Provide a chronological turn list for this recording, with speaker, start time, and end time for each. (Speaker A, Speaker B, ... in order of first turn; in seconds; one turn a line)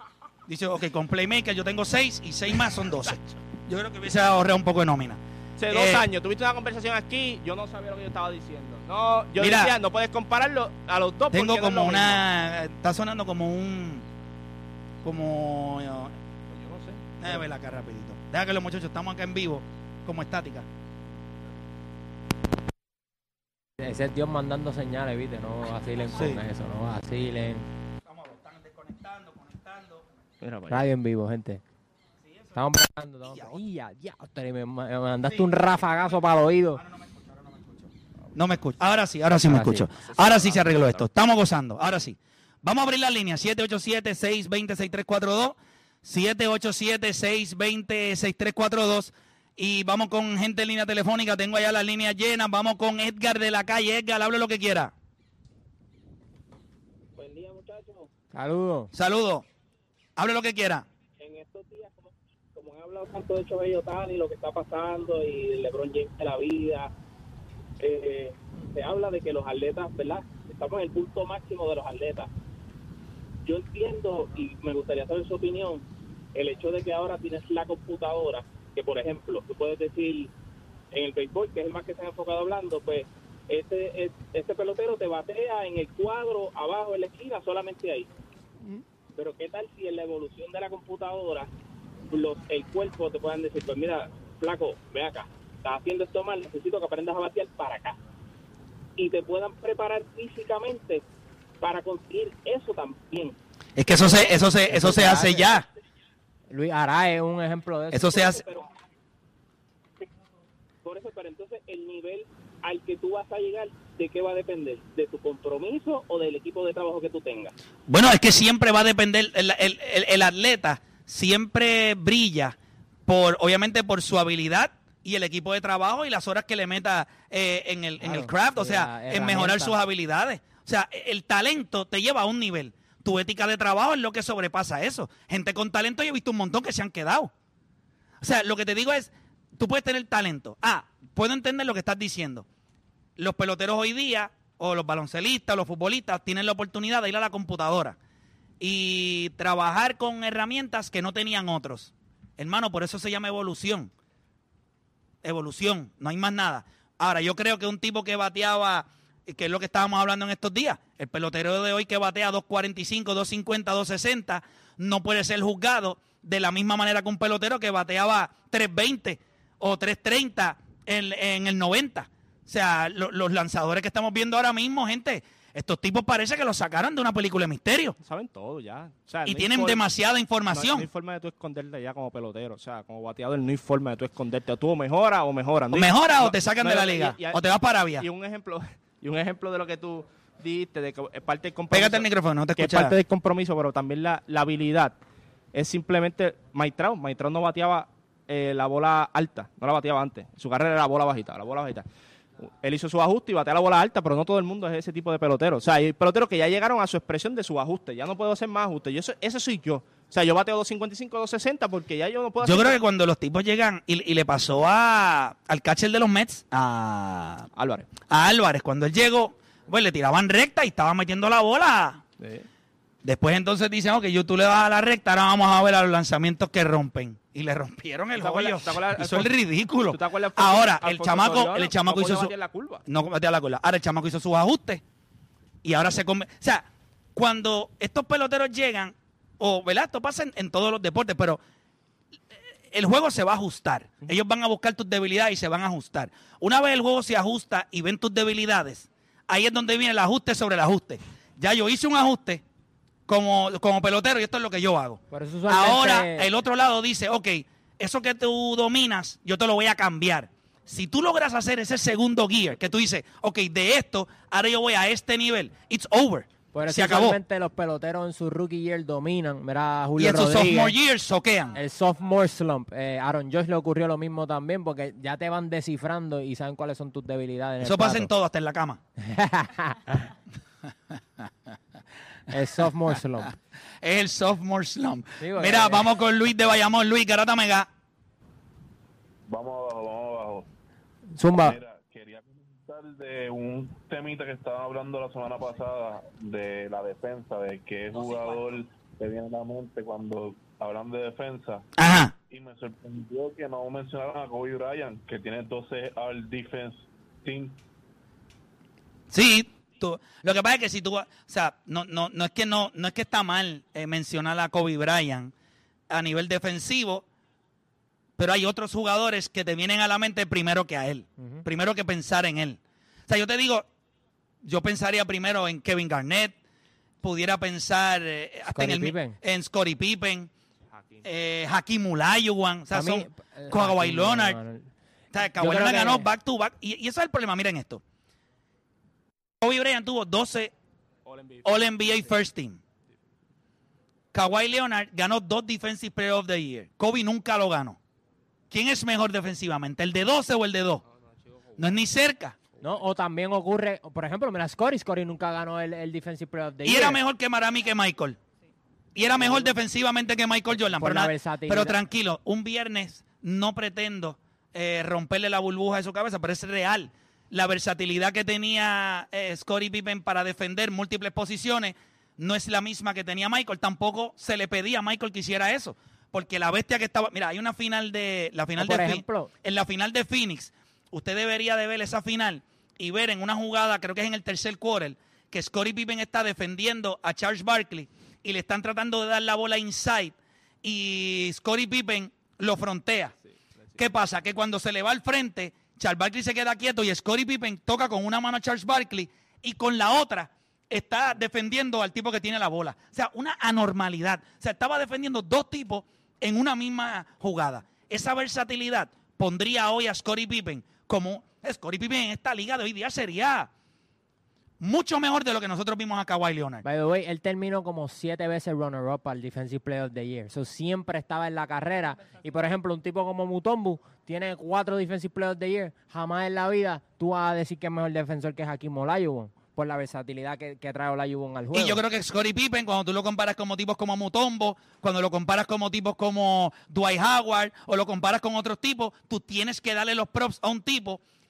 Speaker A: 0.5-6.1
Speaker B: 5.6-12.2
Speaker A: 9.4-9.7
Speaker A: 11.3-14.1
Speaker A: 15.0-16.2
Speaker B: 16.5-17.0
Speaker A: 17.2-20.7
Speaker C: 23.8-27.7
Speaker A: 26.2-26.4
Speaker A: 28.1-30.1
Speaker B: 30.4-30.9
Speaker C: 30.7-31.6
Speaker A: 32.2-32.7
Speaker C: 32.5-36.8
Speaker A: 33.2-33.6
Speaker A: 35.2-54.9
Speaker C: 39.4-39.9
Speaker B: 39.9-41.0
Speaker D: 57.2-58.1
Speaker C: 58.3-58.9
Speaker A: 58.9-59.5
Speaker A: 60.2-60.9
Speaker D: 61.2-66.9
Speaker D: 67.8-72.3
Speaker D: 73.5-80.3
Speaker D: 80.9-88.1
Speaker D: 89.2-91.5
Speaker D: 92.1-98.0
Speaker D: 99.0-101.0
Speaker D: 101.6-103.4
Speaker A: 103.8-105.7
Speaker C: 104.7-105.6
Speaker C: 106.5-108.4
Speaker A: 107.9-108.5
Speaker D: 108.2-108.7
Speaker D: 110.8-117.5
Speaker A: 117.9-122.6
Speaker A: 123.1-137.3
Speaker C: 128.0-129.8
Speaker A: 138.2-142.5
Speaker A: 143.2-148.0
Speaker A: 148.6-153.9
Speaker A: 155.2-178.0
Speaker B: 178.0-179.8
Speaker A: 179.2-180.9
Speaker B: 180.5-192.1
Speaker A: 185.7-188.1
Speaker A: 191.7-193.0
Speaker B: 192.6-195.0
Speaker B: 195.5-201.8
Speaker B: 202.4-212.8
Speaker A: 212.4-217.5
Speaker B: 217.6-217.9
Speaker A: 218.1-222.0
Speaker B: 222.2-222.5
Speaker A: 223.0-232.3
Speaker B: 228.2-229.3
Speaker B: 229.9-232.8
Speaker A: 232.9-234.8
Speaker A: 235.6-241.4
Speaker A: 242.7-252.4
Speaker A: 253.1-267.2
Speaker C: 255.1-256.3
Speaker C: 266.5-270.8
Speaker A: 270.0-271.6
Speaker C: 271.5-278.1
Speaker A: 277.6-278.8
Speaker C: 279.0-280.0
Speaker C: 282.3-283.3
Speaker A: 283.8-287.7
Speaker C: 285.2-285.9
Speaker E: 289.3-290.5
Speaker C: 291.2-291.6
Speaker E: 291.4-301.6
Speaker A: 301.8-302.1
Speaker E: 302.3-307.6
Speaker A: 309.1-315.3
Speaker A: 315.9-317.1
Speaker A: 318.2-323.7
Speaker A: 324.4-326.4
Speaker A: 327.0-330.3
Speaker C: 328.5-329.2
Speaker B: 330.7-331.1
Speaker A: 331.0-334.4
Speaker C: 332.7-334.7
Speaker A: 335.1-337.8
Speaker C: 335.4-336.1
Speaker A: 339.4-340.5
Speaker B: 341.1-342.1
Speaker A: 341.4-342.6
Speaker A: 344.1-347.8
Speaker A: 348.5-350.8
Speaker B: 350.9-351.8
Speaker A: 351.6-352.4
Speaker B: 352.6-352.8
Speaker C: 352.6-357.0
Speaker A: 356.6-358.2
Speaker A: 358.9-393.2
Speaker B: 359.2-359.5
Speaker C: 360.6-361.8
Speaker C: 378.6-379.3
Speaker B: 393.3-393.8
Speaker A: 393.8-413.5
Speaker A: 414.6-416.6
Speaker C: 416.6-431.8
Speaker A: 431.5-441.0